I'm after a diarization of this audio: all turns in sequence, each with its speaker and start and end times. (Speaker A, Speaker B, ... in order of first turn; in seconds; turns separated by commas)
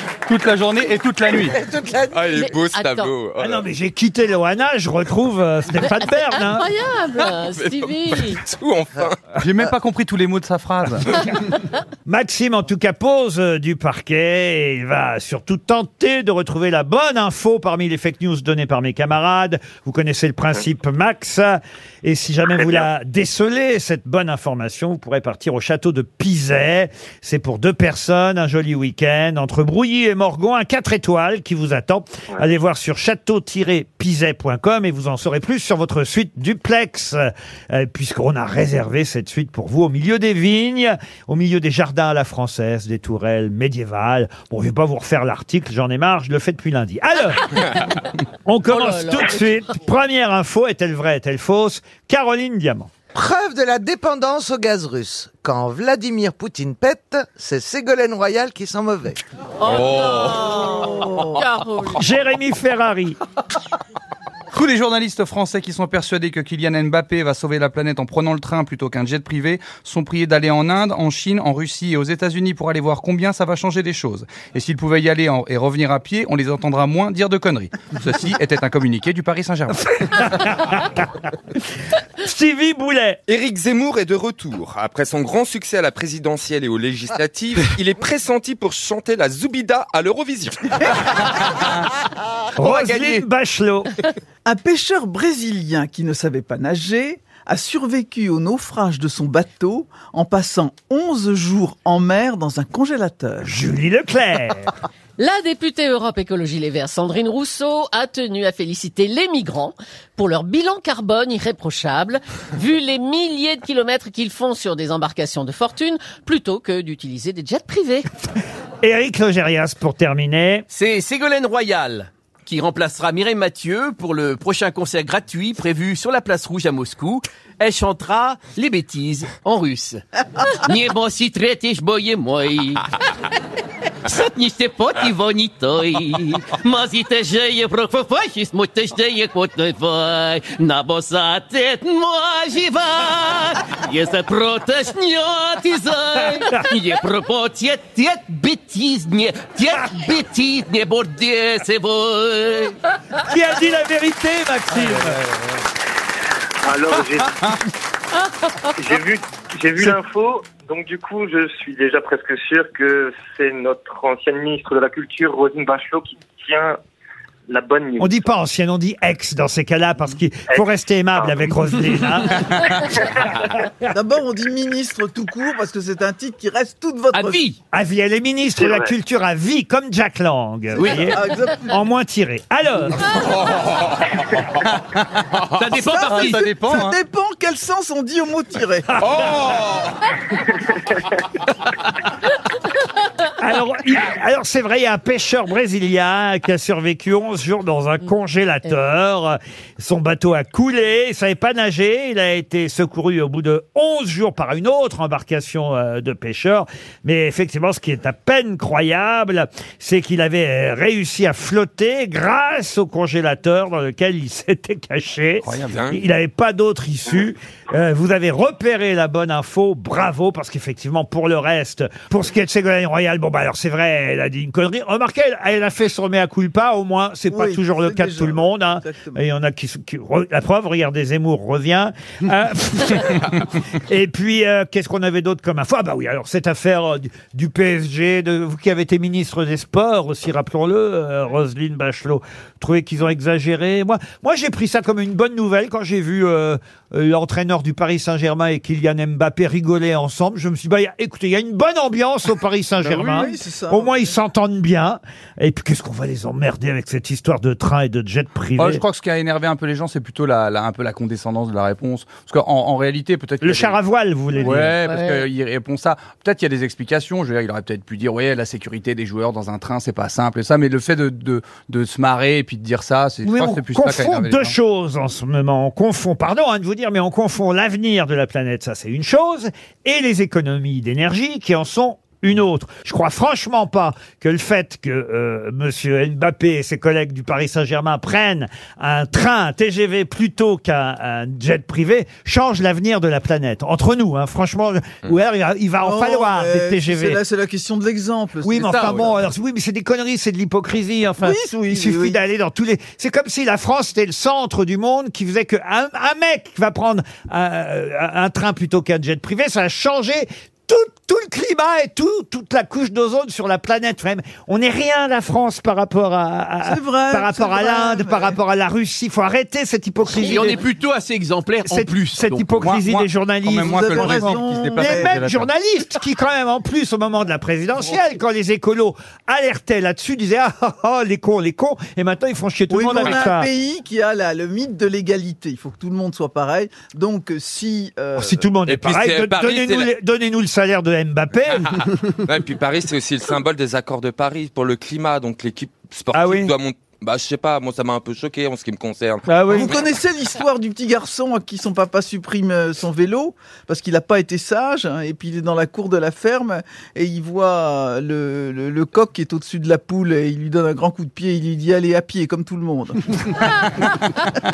Speaker A: 0.3-1.6, Speaker B: 1.3-2.5, Speaker C: 2.1-3.6, Speaker D: 2.4-3.1, Speaker E: 3.4-6.7, Speaker D: 5.8-8.4, Speaker C: 7.5-9.2, Speaker A: 9.4-11.1, Speaker E: 12.1-47.7, Speaker F: 22.4-22.9, Speaker E: 48.5-52.9, Speaker D: 48.7-49.5, Speaker B: 53.1-59.2, Speaker D: 59.6-62.1, Speaker C: 59.6-61.1, Speaker G: 60.3-61.4, Speaker E: 62.0-63.2, Speaker A: 64.5-80.5, Speaker E: 79.8-81.0, Speaker E: 82.2-83.2, Speaker C: 83.3-91.5, Speaker E: 92.5-93.9, Speaker C: 92.6-93.2, Speaker G: 94.4-103.5, Speaker E: 103.4-104.7, Speaker D: 105.2-118.1, Speaker E: 118.8-120.6, Speaker H: 120.7-130.0, Speaker H: 130.6-132.8, Speaker H: 134.0-152.8, Speaker E: 153.2-155.2, Speaker A: 154.8-155.4, Speaker F: 156.6-157.4, Speaker F: 158.8-166.8, Speaker F: 167.5-168.3, Speaker E: 168.0-173.9, Speaker F: 170.5-171.5, Speaker F: 172.9-173.2, Speaker G: 173.9-177.4, Speaker H: 177.1-177.6, Speaker E: 177.7-183.0, Speaker F: 178.5-178.9, Speaker H: 180.8-181.1, Speaker G: 180.8-181.8, Speaker C: 183.2-184.0, Speaker A: 184.6-185.1, Speaker H: 185.6-186.5, Speaker G: 185.7-189.0, Speaker A: 185.9-187.0, Speaker E: 188.9-189.2, Speaker C: 189.0-189.9, Speaker E: 193.4-258.8, Speaker C: 215.5-216.0, Speaker G: 227.3-229.2, Speaker G: 252.8-254.1, Speaker A: 258.6-263.8, Speaker E: 263.4-264.8, Speaker A: 264.4-274.6, Speaker D: 264.8-265.3, Speaker E: 273.2-297.2, Speaker G: 295.8-299.1, Speaker E: 298.4-320.6, Speaker H: 298.6-299.1, Speaker G: 301.2-302.2, Speaker G: 316.6-318.4, Speaker H: 320.1-322.6, Speaker D: 320.2-320.6, Speaker E: 321.6-333.5, Speaker A: 322.6-325.5, Speaker G: 323.6-325.1, Speaker G: 332.7-338.4, Speaker E: 338.1-341.7, Speaker C: 338.7-339.9, Speaker C: 342.2-349.8, Speaker E: 346.1-346.5, Speaker E: 349.2-349.7, Speaker G: 349.5-363.2